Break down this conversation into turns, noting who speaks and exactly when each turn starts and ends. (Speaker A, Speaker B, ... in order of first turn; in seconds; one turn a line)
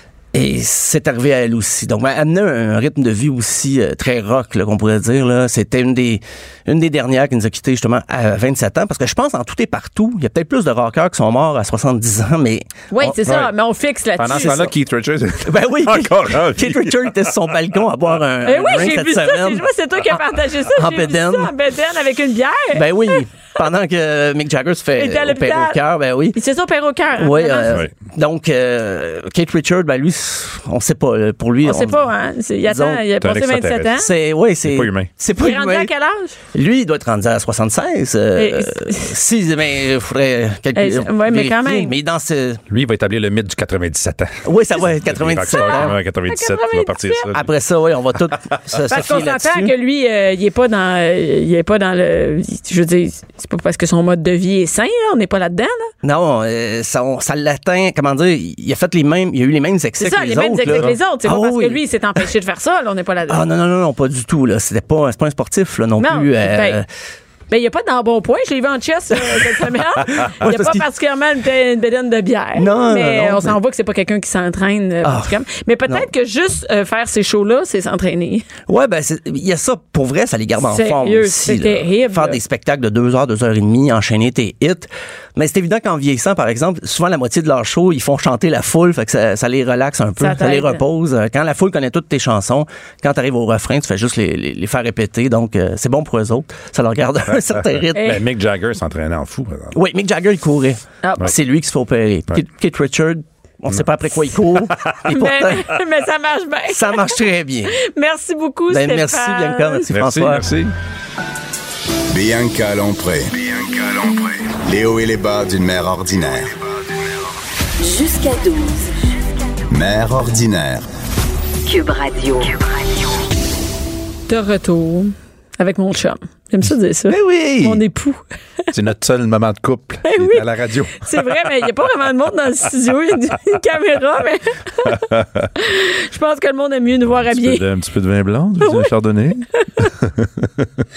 Speaker A: 0.3-13.2
Speaker B: 12.9-14.7
Speaker C: 14.2-17.5
Speaker A: 15.5-19.6
Speaker B: 18.4-23.2
Speaker A: 20.7-21.5
Speaker A: 22.7-26.4
Speaker B: 25.0-25.8
Speaker B: 26.4-27.8
Speaker A: 27.2-32.0
Speaker B: 31.6-34.1
Speaker A: 32.7-33.0
Speaker C: 33.2-34.0
Speaker A: 34.0-35.9
Speaker C: 34.6-35.1
Speaker B: 35.4-36.4
Speaker A: 36.5-42.6
Speaker B: 38.4-39.1
Speaker B: 40.8-41.9
Speaker C: 42.7-47.5
Speaker A: 44.5-46.0
Speaker B: 45.5-47.3
Speaker A: 47.3-49.7
Speaker B: 48.9-55.9
Speaker A: 56.0-61.8
Speaker B: 60.0-63.4
Speaker A: 63.3-66.9
Speaker B: 66.0-66.8
Speaker B: 67.5-78.5
Speaker A: 70.1-70.8
Speaker A: 72.6-73.6
Speaker A: 75.0-75.3
Speaker A: 78.7-98.2
Speaker B: 80.6-82.4
Speaker B: 90.2-90.8
Speaker C: 97.3-99.8
Speaker B: 98.0-98.2
Speaker A: 99.7-105.8
Speaker B: 101.0-101.3
Speaker B: 105.1-109.9
Speaker A: 106.7-107.8
Speaker A: 108.7-110.5
Speaker C: 109.9-110.7
Speaker D: 112.1-116.6
Speaker E: 117.8-118.9
Speaker D: 119.7-120.9
Speaker E: 121.7-123.1
Speaker B: 124.3-128.2
Speaker C: 127.1-127.8
Speaker C: 128.7-131.3
Speaker B: 130.0-130.4
Speaker B: 131.0-135.1
Speaker C: 134.8-135.5
Speaker B: 135.6-137.6
Speaker C: 137.2-140.7
Speaker B: 138.6-138.9
Speaker B: 139.6-139.9